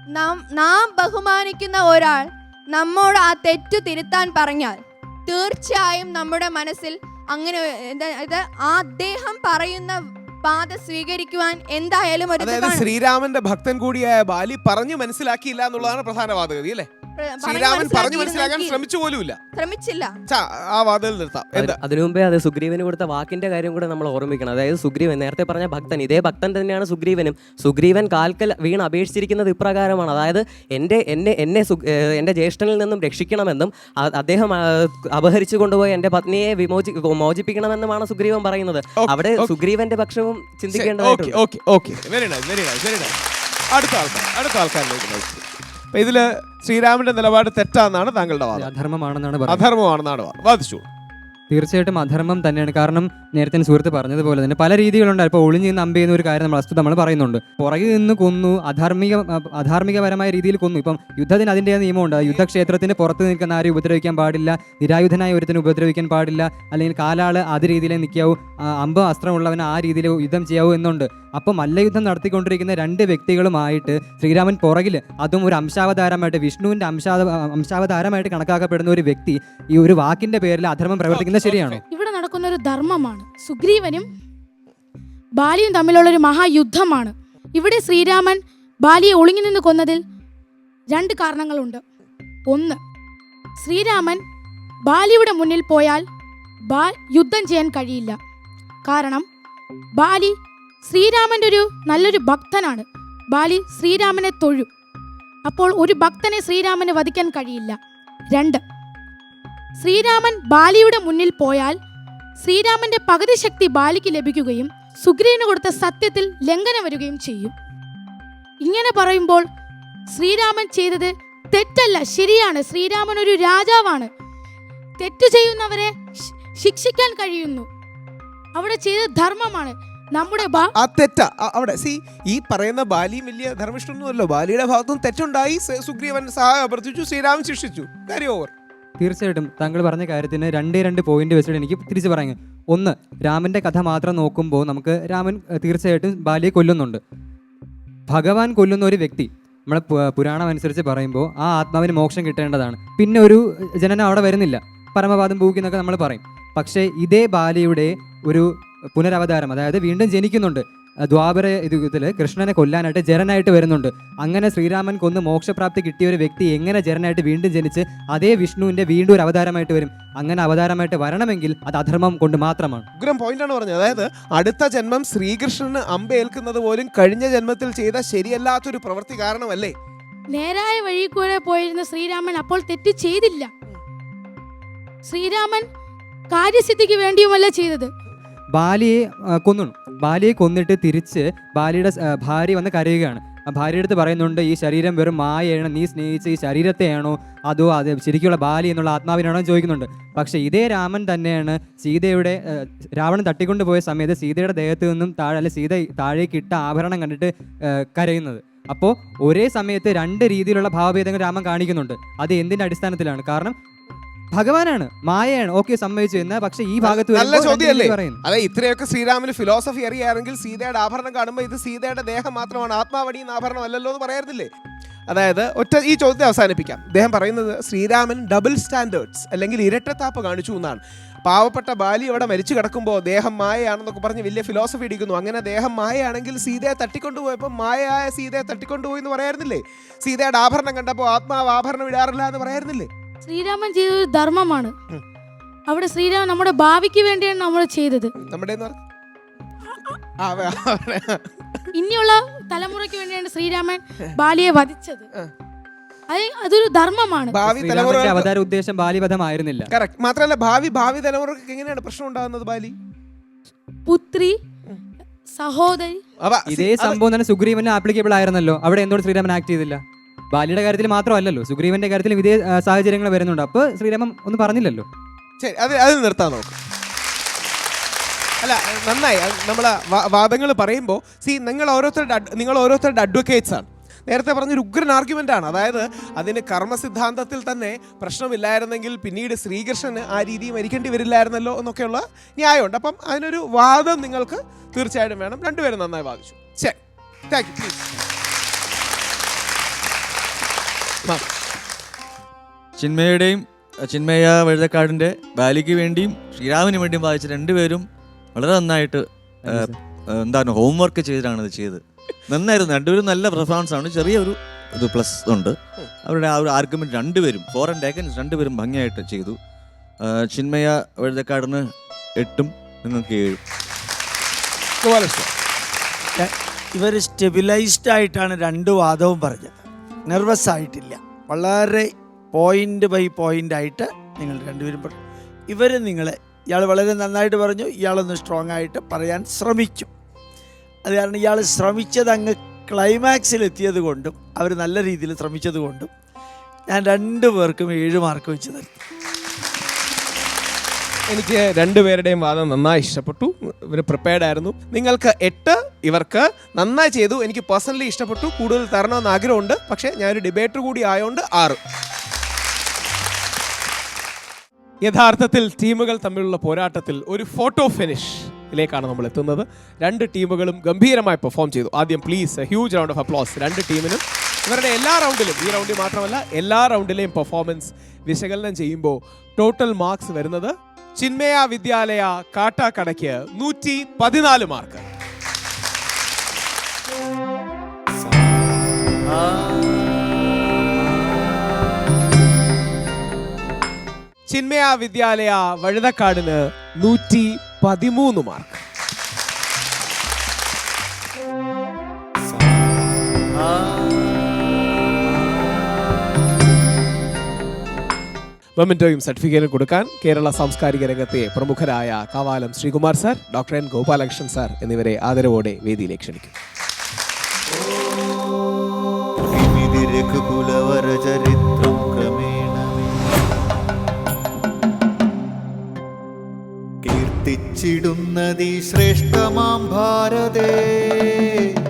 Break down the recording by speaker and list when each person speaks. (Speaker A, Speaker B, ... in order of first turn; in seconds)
Speaker A: 0.1-12.9, 17.2-18.8, 19.5-20.1
Speaker B: 12.4-16.9, 17.4-19.4, 20.3-21.8, 39.0-39.5, 40.7-43.2, 43.7-48.7, 49.5-50.8, 62.2-62.5, 81.1-81.8, 130.8-138.5, 173.0-179.7, 216.8-224.5, 225.1-242.9, 248.2-248.8, 250.2-251.2, 257.3-258.3, 259.7-262.7, 266.2-267.0, 275.4-276.6, 278.4-296.8, 297.3-297.9, 324.8-325.3, 351.1-361.6, 364.8-384.8, 394.3-398.6, 408.6-416.3
Speaker C: 21.5-41.4
Speaker D: 48.5-49.7, 51.5-81.8, 139.0-147.0, 148.1-172.9, 188.5-213.5, 214.3-218.2, 257.4-259.7, 266.5-269.8, 270.3-274.9, 309.4-309.8
Speaker E: 81.9-84.1, 85.4-90.0, 90.9-91.8, 92.5-92.8, 93.6-94.2, 94.9-96.0, 96.7-98.2, 98.8-99.2, 100.0-104.7, 105.5-107.8, 108.3-108.6, 109.8-111.8, 112.4-117.5, 118.6-119.5, 120.1-124.1, 125.0-125.9, 126.5-127.7, 128.6-130.7, 180.3-183.5, 185.1-185.7, 186.3-187.9, 243.2-244.7, 245.7-248.1, 251.8-255.1, 256.1-257.4, 263.9-264.4, 265.4-266.0
Speaker F: 302.8-319.4, 320.0-321.6, 322.2-323.4
Speaker G: 326.2-335.0, 335.5-339.9, 340.8-345.9, 346.7-348.8
Speaker H: 419.3-423.0, 426.8-431.2